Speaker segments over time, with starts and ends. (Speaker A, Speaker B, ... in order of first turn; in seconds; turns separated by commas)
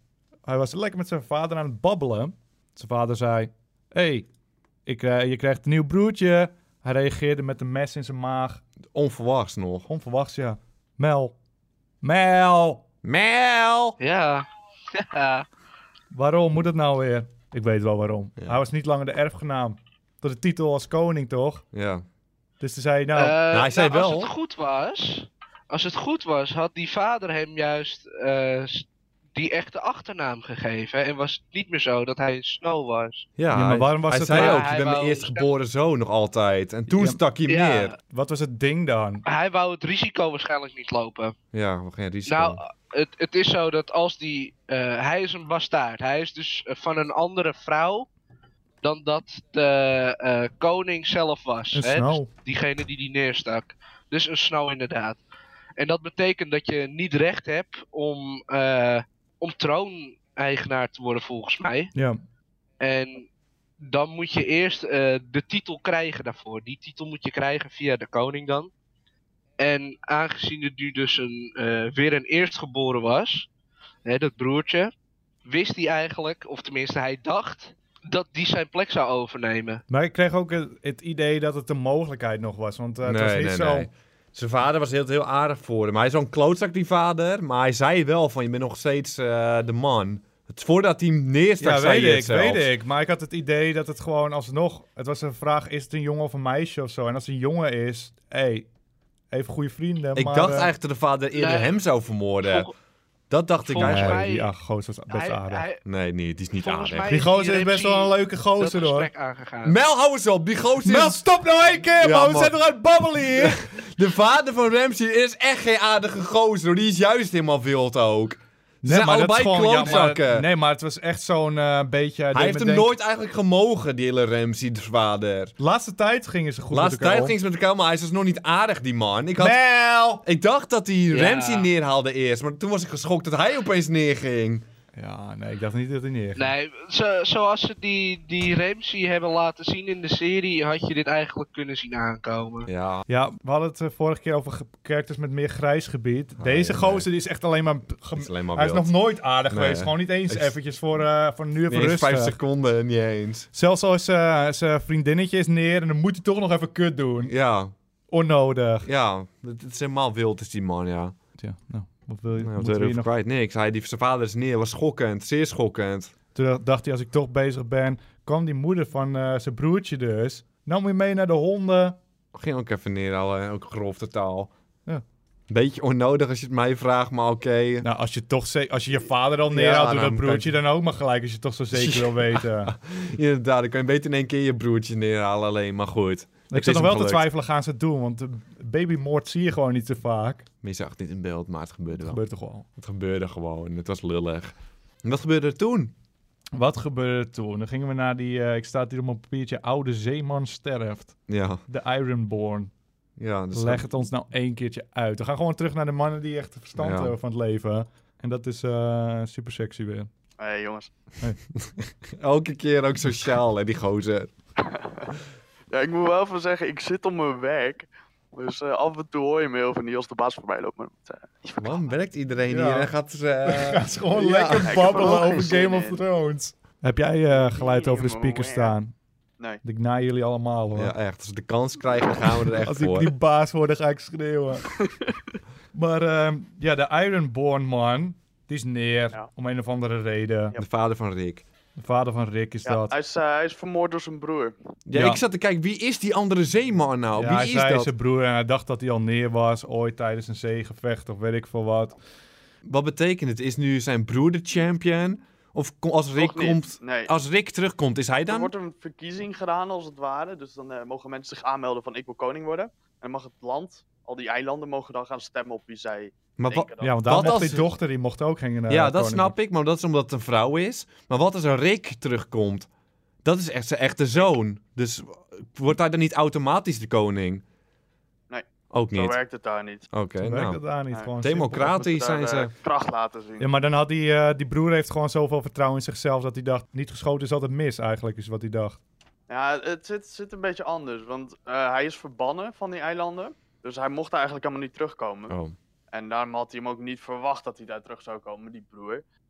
Speaker A: 0.5-4.3, Speaker A: 4.8-8.6, Speaker B: 8.9-9.9, Speaker A: 9.9-11.3, Speaker A: 12.0-12.8, Speaker B: 13.0-14.0, Speaker C: 14.0-15.4, Speaker A: 16.1-21.6, Speaker B: 21.7-22.0, Speaker A: 22.6-23.4, Speaker C: 23.1-33.3, Speaker B: 23.5-24.3, Speaker B: 33.4-37.9, Speaker A: 33.5-34.6, Speaker C: 34.3-35.5, Speaker A: 36.9-37.2, Speaker C: 37.5-37.9, Speaker A: 38.1-39.2, Speaker C: 39.2-41.3, Speaker B: 41.5-42.6, Speaker C: 42.3-48.1, Speaker C: 48.8-55.2, Speaker A: 51.7-52.3, Speaker C: 55.8-61.9, Speaker A: 61.9-62.2, Speaker C: 62.8-63.3, Speaker C: 63.8-68.7, Speaker C: 69.6-73.5, Speaker C: 74.0-74.9, Speaker C: 75.5-79.8, Speaker A: 79.9-83.9, Speaker B: 83.0-92.7, Speaker A: 91.6-98.7, Speaker A: 99.3-100.7, Speaker B: 100.1-102.7, Speaker C: 101.3-101.8, Speaker C: 102.4-102.7, Speaker B: 103.3-104.2, Speaker C: 103.7-104.5, Speaker A: 103.8-105.6, Speaker C: 105.1-105.8, Speaker B: 105.8-107.2, Speaker C: 106.6-109.8, Speaker A: 107.1-109.1, Speaker B: 109.6-111.2, Speaker A: 110.8-113.6, Speaker B: 112.0-112.6, Speaker B: 113.3-120.5, Speaker A: 118.8-122.9, Speaker B: 122.3-125.5, Speaker A: 125.6-127.3, Speaker B: 126.7-129.6, Speaker A: 129.4-130.2, Speaker B: 130.2-134.6, Speaker C: 131.1-131.7, Speaker A: 134.9-136.5, Speaker C: 136.3-142.7, Speaker B: 142.7-143.1, Speaker A: 143.1-152.4, Speaker B: 146.4-147.1, Speaker B: 148.2-148.9, Speaker B: 149.5-150.5, Speaker B: 151.7-153.5, Speaker A: 153.5-157.3, Speaker B: 157.2-157.7, Speaker A: 158.1-158.9, Speaker B: 158.8-161.1, Speaker A: 161.4-163.1, Speaker B: 162.4-166.1, Speaker A: 166.3-172.0, Speaker B: 172.3-174.5, Speaker B: 175.5-177.8, Speaker A: 177.8-182.7, Speaker B: 179.5-180.6, Speaker B: 181.7-187.3, Speaker A: 186.5-190.4, Speaker B: 190.6-192.2, Speaker A: 192.0-192.7, Speaker B: 192.8-195.9, Speaker A: 196.5-202.7, Speaker B: 201.3-201.6, Speaker B: 203.2-203.9, Speaker A: 203.5-210.1, Speaker B: 206.8-207.1, Speaker D: 210.4-210.9, Speaker B: 211.7-214.3, Speaker D: 214.6-215.1, Speaker D: 215.7-221.8, Speaker B: 221.6-225.4, Speaker A: 222.5-222.9, Speaker A: 223.4-228.9, Speaker D: 224.6-226.0, Speaker D: 227.3-228.8, Speaker A: 229.6-230.9, Speaker B: 230.8-233.1, Speaker A: 232.6-234.7, Speaker D: 234.8-235.1, Speaker A: 235.7-240.6, Speaker B: 240.6-241.4, Speaker A: 241.8-242.9, Speaker D: 242.6-244.6, Speaker B: 244.8-247.9, Speaker A: 244.9-245.2, Speaker A: 247.2-251.9, Speaker B: 252.6-258.5, Speaker D: 256.2-257.1, Speaker D: 258.3-267.4, Speaker B: 266.4-267.7, Speaker A: 266.8-269.3, Speaker B: 268.7-272.7, Speaker B: 273.2-277.4, Speaker D: 278.3-279.9, Speaker B: 278.7-279.2, Speaker B: 279.9-280.6, Speaker A: 280.2-281.8, Speaker D: 280.9-283.5, Speaker B: 281.2-282.5, Speaker A: 283.4-288.8, Speaker D: 289.3-295.4, Speaker B: 295.3-295.5, Speaker D: 295.9-299.0